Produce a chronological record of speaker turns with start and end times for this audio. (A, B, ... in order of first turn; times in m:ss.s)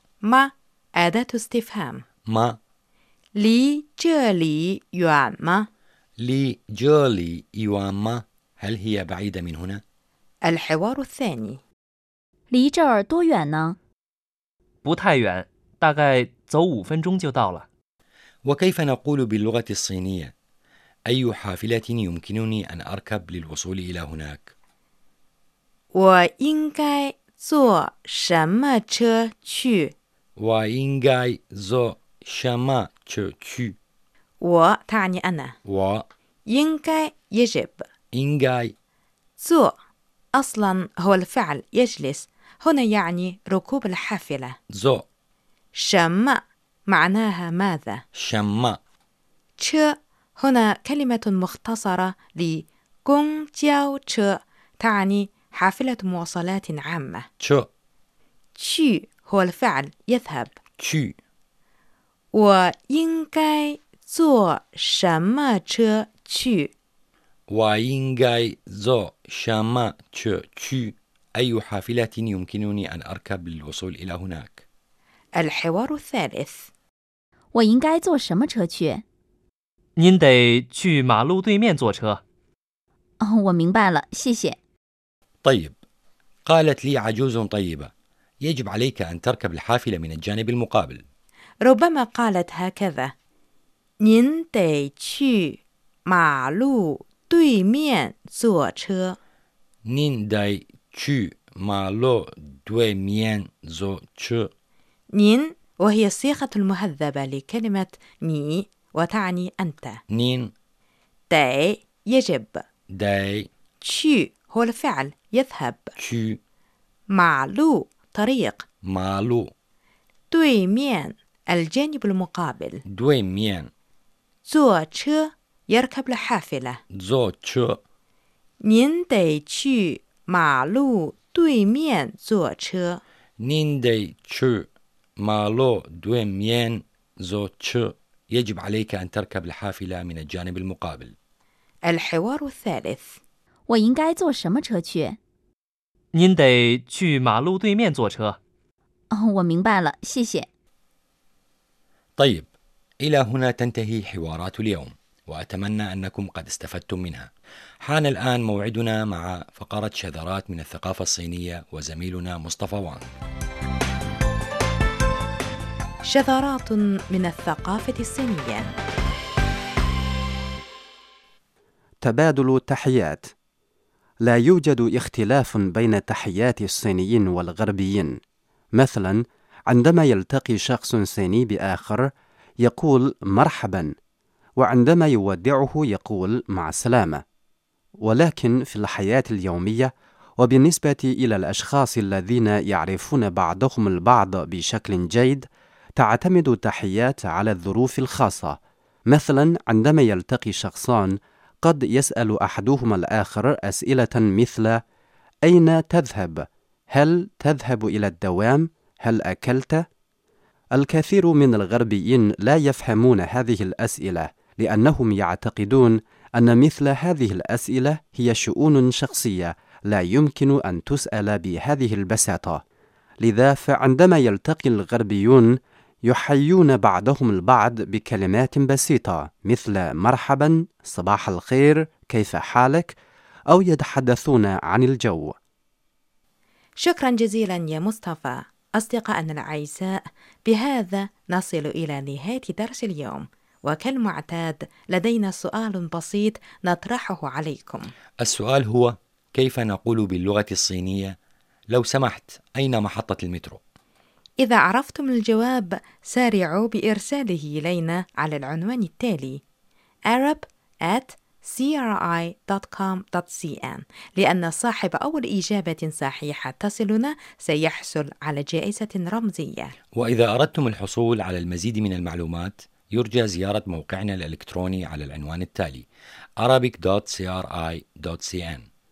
0:00.2-0:02.0 A
0:02.3-0:02.6 B
0:03.4-0:05.7 A
0:06.2-0:09.8 B
0:10.4-0:11.6 A
0:12.5-0:13.8 C
0:14.8-0:17.7 D
0:18.5-0:20.3 B
0:21.1-0:24.5 B
0:25.9-0:29.9 A
0:30.4-0:33.8 B
0:34.4-0:35.5 A
0:35.7-0:36.1 B
0:36.5-0:37.8 A
0:38.1-0:38.7 B
0:39.4-0:39.7 A
0:40.4-0:44.5 A
0:44.7-0:45.0 B
0:45.8-0:48.0 A
0:48.2-0:48.8 B
0:49.6-0:57.3 A
0:57.4-0:57.7 B
0:58.6-1:00.5 A
1:00.8-1:01.2 B
1:02.3-1:06.7 A
1:07.5-1:14.6 B
1:15.4-1:16.7 A
1:17.5-1:19.0 C
1:20.0-1:22.2 D
1:23.2-1:24.6 C
1:25.4-1:25.8 B
1:26.5-1:31.0 B
1:31.6-1:33.1 A
1:34.0-1:39.2 A
1:39.9-1:44.5 B
1:45.1-1:50.0 A
1:50.1-1:50.5 B
1:51.3-1:52.6 A
1:52.9-1:53.5 B
1:53.8-1:55.9 A
1:56.0-1:56.4 B
1:57.1-1:58.6 A
1:58.9-1:59.5 B
2:00.3-2:02.8 A
2:02.9-2:03.7 B
2:04.5-2:06.8 A
2:07.0-2:07.8 B
2:08.6-2:13.0 A
2:13.4-2:14.7 B
2:15.2-2:21.2 B
2:21.8-2:23.2 A
2:23.7-2:25.2 C
2:26.1-2:28.4 D
2:29.1-2:30.5 C
2:32.2-2:32.5 B
2:33.0-2:37.3 B
2:37.8-2:43.1 B
2:46.0-2:48.7 A
2:52.0-2:53.3 E
2:54.2-2:58.2 E
2:58.7-3:02.1 E
3:02.6-3:03.9 E
3:04.6-3:07.2 E
3:08.0-3:15.5 E
3:16.0-3:18.6 E
3:19.1-3:24.8 E
3:25.4-3:29.8 E
3:30.8-3:42.6 E
3:43.2-3:53.0 E
3:53.5-3:55.3 E
3:56.8-4:07.9 A
4:08.2-4:11.2 B
4:11.7-4:13.6 B
4:14.4-4:19.4 A
4:20.1-4:29.7 A
4:30.0-4:35.9 B
4:36.4-4:38.7 B